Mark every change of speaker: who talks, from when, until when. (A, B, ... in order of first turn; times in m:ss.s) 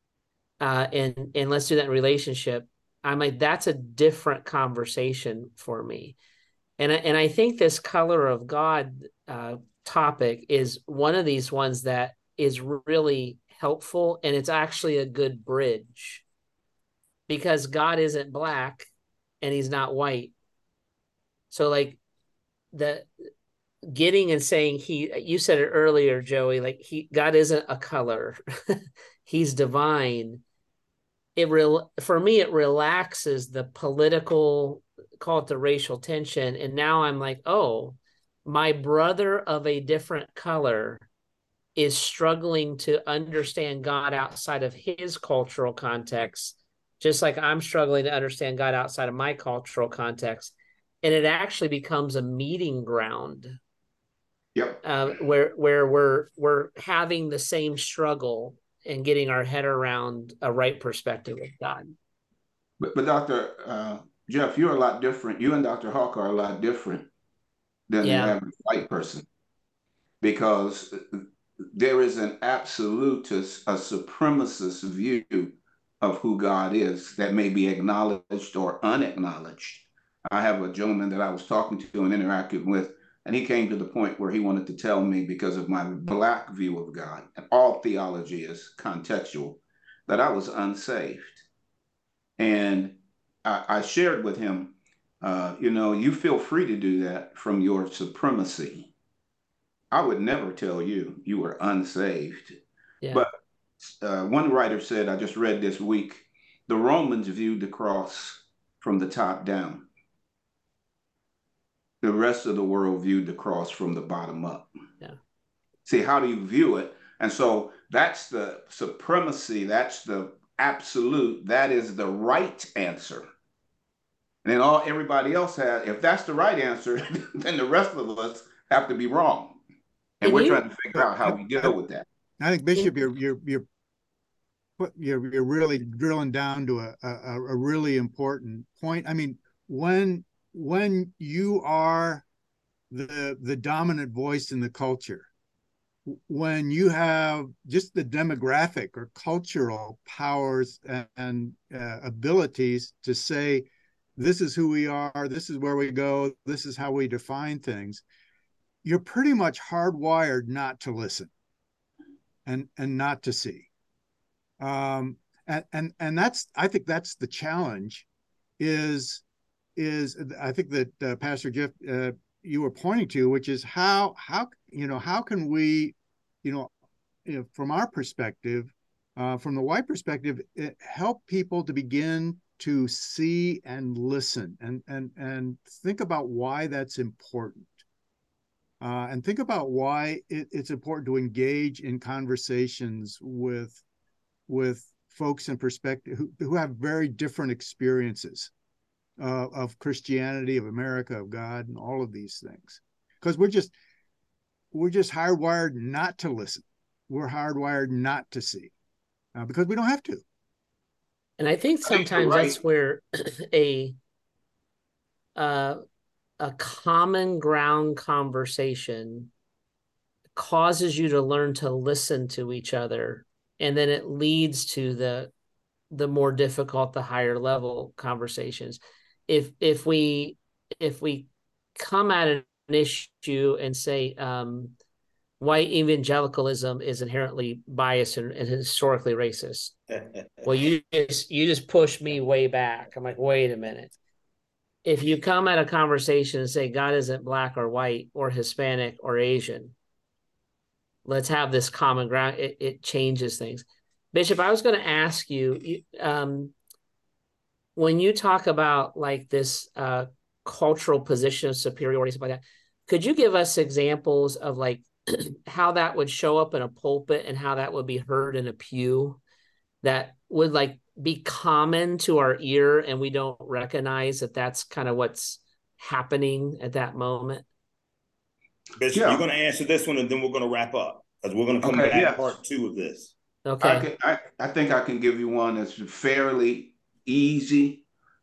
0:00.6-0:06.2 A
0:06.8-0:16.2 A
0:17.3-0:18.9 A
0:19.4-0:20.3 A
0:21.5-0:22.0 A
0:22.7-0:23.1 A
0:23.9-0:30.4 A
0:31.4-0:41.1 A
0:41.8-0:53.6 A
0:54.6-0:54.8 B
0:54.8-1:01.9 A
1:02.8-1:07.1 B
1:07.9-1:09.3 B
1:08.0-1:08.4 A
1:10.2-1:11.2 B
1:11.8-1:31.4 B
1:32.4-1:38.9 B
1:39.9-1:42.6 B
1:43.0-1:43.3 A
1:43.1-1:49.9 B
1:52.0-1:54.7 B
1:55.9-2:03.2 B
2:04.4-2:09.6 B
2:10.2-2:12.1 B
2:10.2-2:10.6 A
2:12.4-2:13.7 C
2:14.8-2:22.2 C
2:22.9-2:25.3 C
2:26.1-2:38.0 C
2:38.8-2:41.3 C
2:42.5-2:43.7 C
2:44.6-2:48.1 C
2:48.6-2:49.2 C
2:49.8-2:56.7 C
2:57.3-3:07.8 C
3:08.8-3:13.8 C
3:14.5-3:18.5 C
3:19.2-3:23.7 C
3:24.7-3:28.7 C
3:29.4-3:30.2 C
3:31.4-3:34.0 A
3:31.9-3:32.6 B
3:35.4-3:35.8 A
3:36.4-3:39.3 A
3:40.4-3:45.3 A
3:45.9-3:54.7 A
3:55.4-3:59.8 A
4:00.4-4:04.0 A
4:04.8-4:09.7 A
4:11.1-4:16.5 A
4:17.8-4:29.2 A
4:29.8-4:37.4 A
4:38.8-4:43.1 D
4:39.0-4:39.2 B
4:41.6-4:42.4 B
4:43.4-4:43.9 A
4:43.6-4:47.8 B